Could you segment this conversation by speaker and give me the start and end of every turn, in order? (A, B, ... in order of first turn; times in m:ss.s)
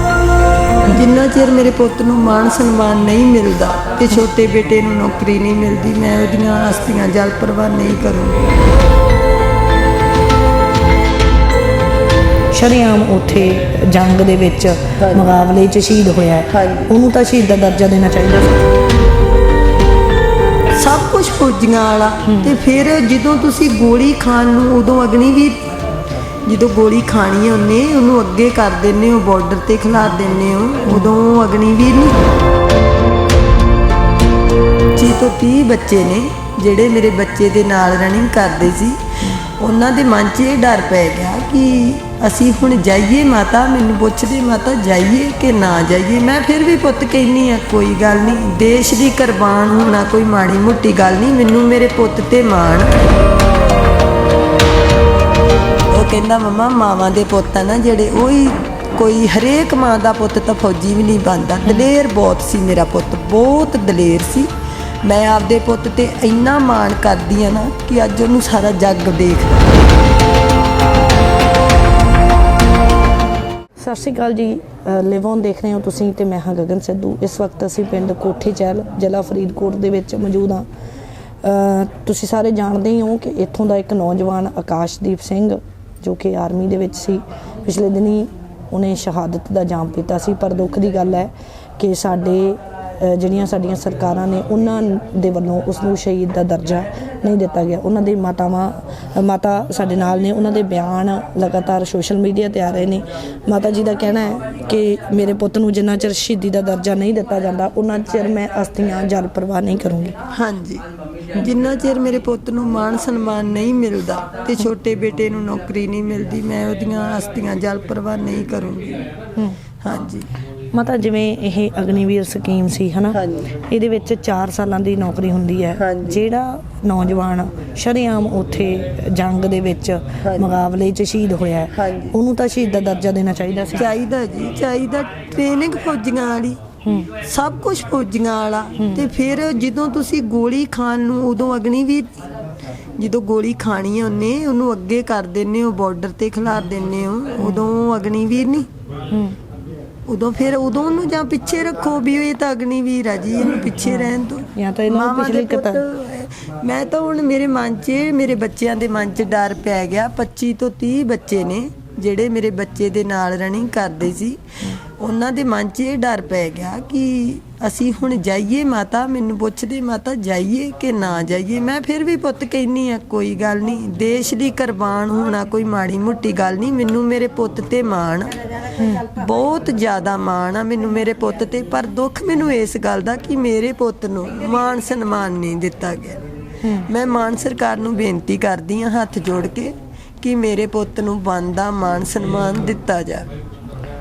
0:00.9-0:08.4 A
0:12.5-0:18.7 B
0:15.0-0:15.3 A
0:16.5-0:16.9 A
0:20.8-0:25.7 A
0:22.3-0:22.5 B
0:26.5-0:32.2 A
0:30.9-0:31.1 B
0:35.0-0:53.0 A
0:55.9-1:04.5 A
1:05.0-1:09.8 A
1:13.8-1:20.7 B
1:21.4-1:50.2 B
1:50.3-1:50.8 A
1:51.4-1:59.0 A
1:59.8-2:00.3 A
2:00.7-2:13.9 B
2:03.1-2:03.5 A
2:05.8-2:06.2 A
2:10.2-2:10.5 A
2:11.7-2:12.2 A
2:13.7-2:16.6 A
2:16.8-2:17.1 B
2:17.2-2:22.2 A
2:18.8-2:19.0 B
2:23.0-2:28.7 A
2:29.1-2:29.4 B
2:30.1-2:58.3 A
2:33.9-2:35.8 B
2:58.8-2:59.1 B
2:59.0-3:06.2 A
3:06.6-3:06.9 B
3:06.9-3:13.3 A